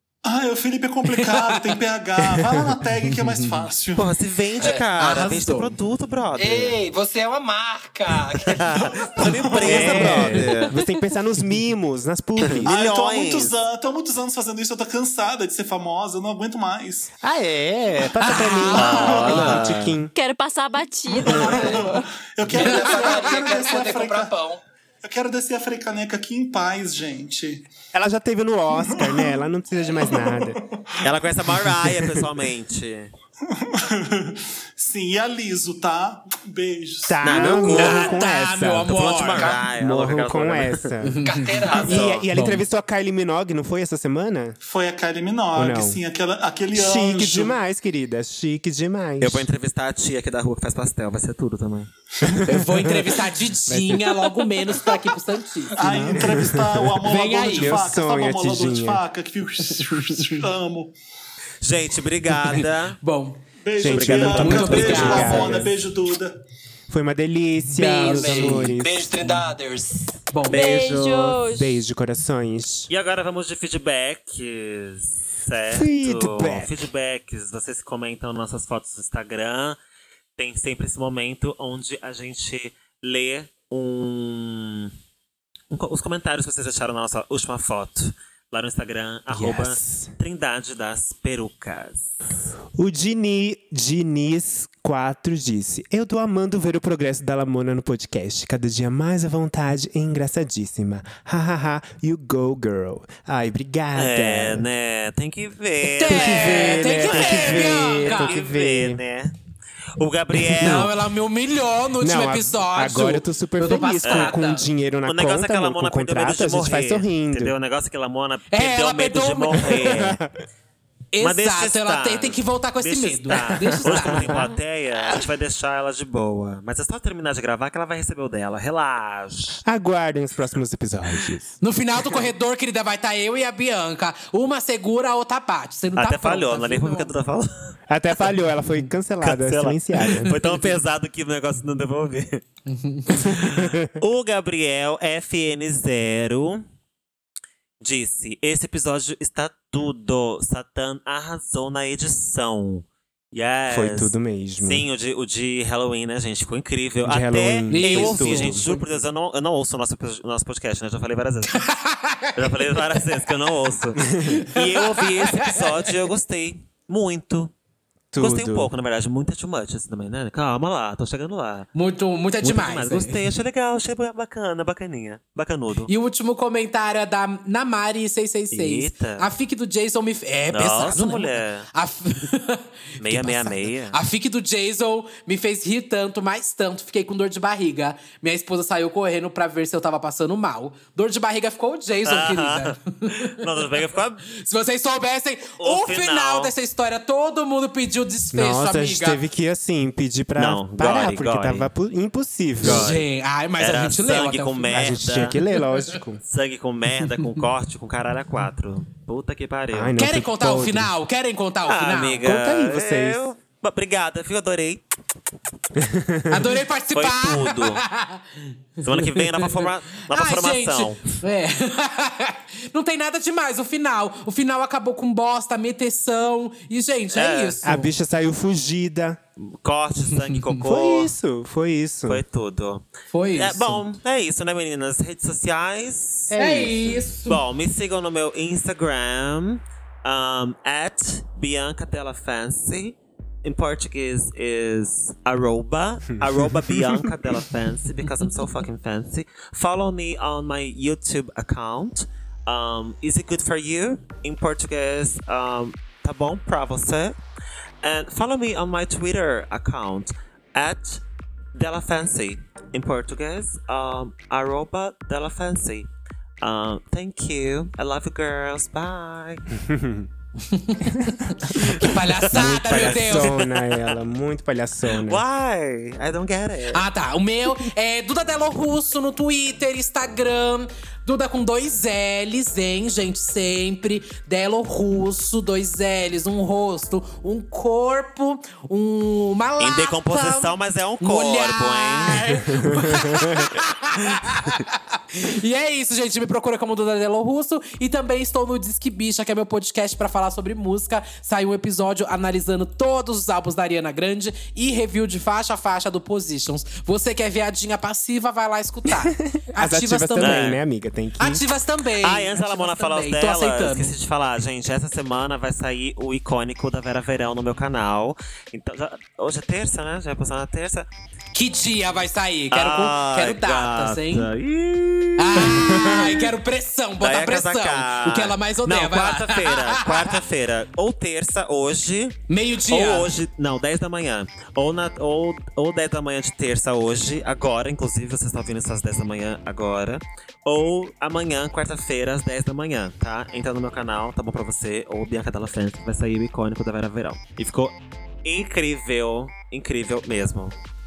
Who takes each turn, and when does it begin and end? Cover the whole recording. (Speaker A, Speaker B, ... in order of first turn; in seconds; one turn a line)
Speaker A: 0.2-4.1
Speaker B: 1.1-1.6
Speaker B: 3.0-3.6
Speaker C: 4.0-6.8
Speaker B: 4.9-5.8
Speaker D: 6.4-9.2
Speaker C: 8.3-10.8
Speaker A: 9.2-10.1
Speaker E: 9.6-12.7
Speaker B: 9.8-10.5
Speaker C: 12.4-13.6
Speaker A: 12.6-17.1
Speaker E: 17.2-20.1
Speaker B: 18.2-19.6
Speaker C: 18.7-20.0
Speaker A: 18.9-19.5
Speaker F: 20.1-22.1
Speaker A: 21.1-24.4
Speaker D: 21.4-21.9
Speaker D: 22.5-24.6
Speaker B: 22.5-23.5
Speaker A: 25.0-27.7
Speaker E: 27.9-30.6
Speaker A: 28.8-29.4
Speaker A: 29.9-30.8
Speaker C: 31.0-33.1
Speaker A: 33.5-37.7
Speaker E: 37.0-38.9
Speaker C: 37.2-38.2
Speaker B: 37.4-39.5
Speaker C: 38.9-40.9
Speaker D: 39.4-39.7
Speaker E: 39.8-44.6
Speaker B: 41.0-41.6
Speaker D: 41.2-42.2
Speaker C: 41.7-42.3
Speaker B: 42.3-42.6
Speaker A: 44.6-47.5
Speaker E: 45.5-46.0
Speaker E: 46.7-49.5
Speaker C: 49.2-51.9
Speaker E: 52.2-53.1
Speaker B: 52.5-56.3
Speaker E: 53.6-54.1
Speaker A: 55.7-60.9
Speaker E: 55.8-59.0
Speaker B: 57.0-57.9
Speaker C: 61.6-63.0
Speaker B: 62.5-63.4
Speaker A: 63.6-66.3
Speaker E: 63.8-65.7
Speaker C: 63.8-65.7
Speaker B: 64.2-65.6
Speaker E: 66.9-69.2
Speaker D: 67.8-70.1
Speaker B: 67.8-68.7
Speaker B: 70.3-70.7
Speaker C: 70.5-71.4
Speaker F: 70.5-71.8
Speaker E: 71.4-72.9
Speaker C: 72.9-79.8
Speaker E: 75.7-76.7
Speaker C: 80.4-84.9
Speaker C: 85.7-92.2
Speaker E: 89.3-90.1
Speaker E: 92.7-104.7
Speaker C: 103.9-109.3
Speaker B: 105.8-108.3
Speaker E: 106.1-109.0
Speaker C: 110.0-110.9
Speaker E: 110.5-110.9
Speaker B: 110.6-114.7
Speaker E: 112.0-117.5
Speaker C: 114.0-114.4
Speaker C: 115.0-120.2
Speaker B: 118.5-119.9
Speaker E: 119.6-120.4
Speaker B: 121.1-124.5
Speaker C: 121.2-129.6
Speaker E: 123.8-124.5
Speaker E: 129.6-131.5
Speaker B: 131.6-137.1
Speaker C: 135.9-137.8
Speaker E: 137.9-140.3
Speaker C: 139.2-142.4
Speaker B: 142.7-143.1
Speaker C: 143.1-146.6
Speaker E: 143.3-143.7
Speaker C: 147.8-161.6
Speaker E: 153.7-154.9
Speaker E: 157.0-158.6
Speaker B: 157.7-158.8
Speaker B: 161.5-163.0
Speaker C: 162.3-167.5
Speaker E: 164.0-164.4
Speaker B: 164.4-165.9
Speaker E: 168.1-168.7
Speaker C: 168.2-171.7
Speaker B: 171.7-173.2
Speaker C: 172.4-175.9
Speaker B: 175.9-193.3
Speaker C: 178.5-179.3
Speaker C: 180.5-181.7
Speaker C: 183.0-184.0
Speaker C: 192.0-194.2
Speaker B: 194.4-199.2
Speaker C: 195.6-196.5
Speaker E: 198.3-202.9
Speaker C: 200.3-201.7
Speaker C: 202.6-203.1
Speaker B: 202.6-204.8
Speaker C: 203.6-205.4
Speaker E: 204.7-206.2
Speaker C: 206.2-210.0
Speaker E: 209.7-210.9
Speaker B: 209.9-212.3
Speaker C: 211.6-214.8
Speaker E: 212.2-213.2
Speaker E: 215.7-216.5
Speaker B: 216.3-227.9
Speaker C: 216.9-217.8
Speaker C: 218.8-221.0
Speaker C: 227.1-227.6
Speaker E: 227.6-229.2
Speaker C: 229.4-231.1
Speaker E: 230.6-232.2
Speaker C: 232.1-236.4
Speaker B: 233.1-233.8
Speaker E: 236.3-237.1
Speaker B: 236.3-237.4
Speaker C: 237.2-257.2
Speaker E: 246.2-247.1
Speaker C: 257.8-261.0
Speaker C: 261.5-265.9
Speaker C: 266.4-269.5
Speaker E: 269.6-270.1
Speaker B: 270.4-273.4
Speaker E: 271.6-275.2
Speaker C: 271.8-274.0
Speaker C: 274.9-276.9
Speaker B: 276.7-310.5
Speaker C: 289.6-292.3
Speaker E: 292.7-293.3
Speaker E: 309.0-311.4
Speaker C: 310.2-310.6
Speaker B: 311.2-313.9
Speaker C: 312.0-320.9
Speaker B: 321.3-324.3
Speaker C: 322.5-326.1
Speaker B: 325.2-330.2
Speaker E: 325.5-326.1
Speaker C: 327.0-350.5
Speaker B: 332.3-333.1